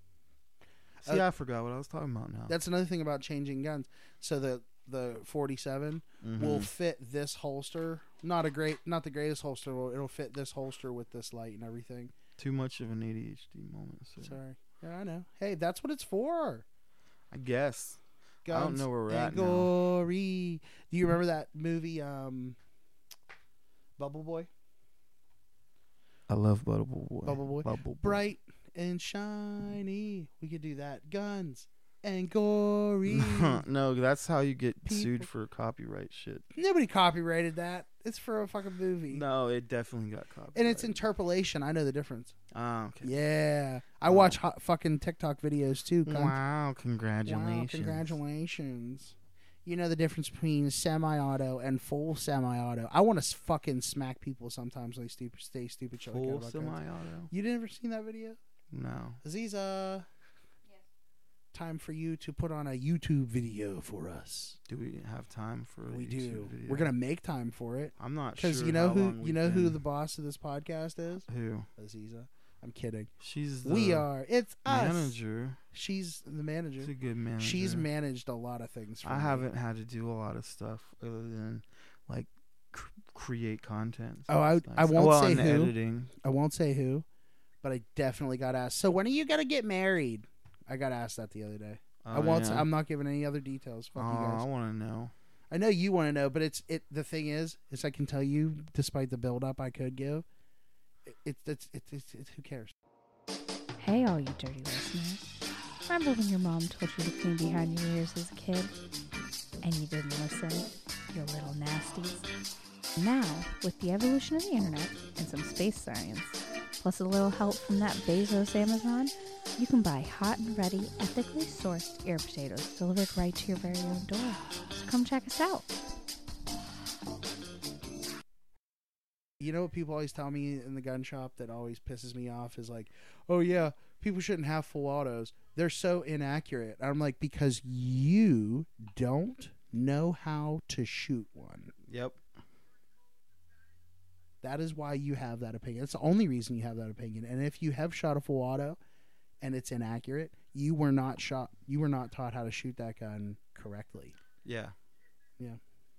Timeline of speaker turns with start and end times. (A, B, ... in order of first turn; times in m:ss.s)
0:01.0-0:02.5 A
0:02.5-0:12.1 B
0:06.2-0:06.7 A
0:12.4-0:14.4 A
0:14.2-0:16.6 B
0:17.3-0:19.7 A
0:18.4-0:22.6 B
0:24.0-0:24.5 B
0:26.3-0:28.3 A
0:27.2-0:33.6 B
0:33.0-0:36.4 A
0:34.8-0:35.3 B
0:36.5-0:39.2 B
0:39.1-0:41.0 A
0:40.5-0:42.3 B
0:42.5-0:43.1 A
0:43.0-0:46.4 B
0:44.1-0:44.4 A
0:46.0-0:48.2 A
0:47.2-0:58.4 B
0:56.0-0:57.3 A
0:58.7-0:59.2 A
0:59.2-1:00.1 B
1:01.5-1:04.6 B
1:04.7-1:06.9 A
1:05.9-1:13.1 B
1:08.0-1:09.8 A
1:11.3-1:11.7 A
1:13.2-1:14.1 A
1:13.6-1:15.2 B
1:14.6-1:15.6 A
1:15.7-1:19.5 B
1:16.8-1:17.9 A
1:19.0-1:26.1 A
1:24.3-1:27.0 B
1:27.6-1:34.4 B
1:32.0-1:32.7 A
1:33.9-1:35.1 A
1:35.5-1:40.2 B
1:41.1-1:42.7 B
1:43.8-1:45.3 C
1:45.9-1:48.7 C
1:49.6-1:52.3 C
1:53.0-2:05.7 C
2:09.4-2:21.7 B
2:21.9-2:22.2 A
2:24.4-2:28.8 B
2:29.4-2:34.2 B
2:34.4-2:34.7 A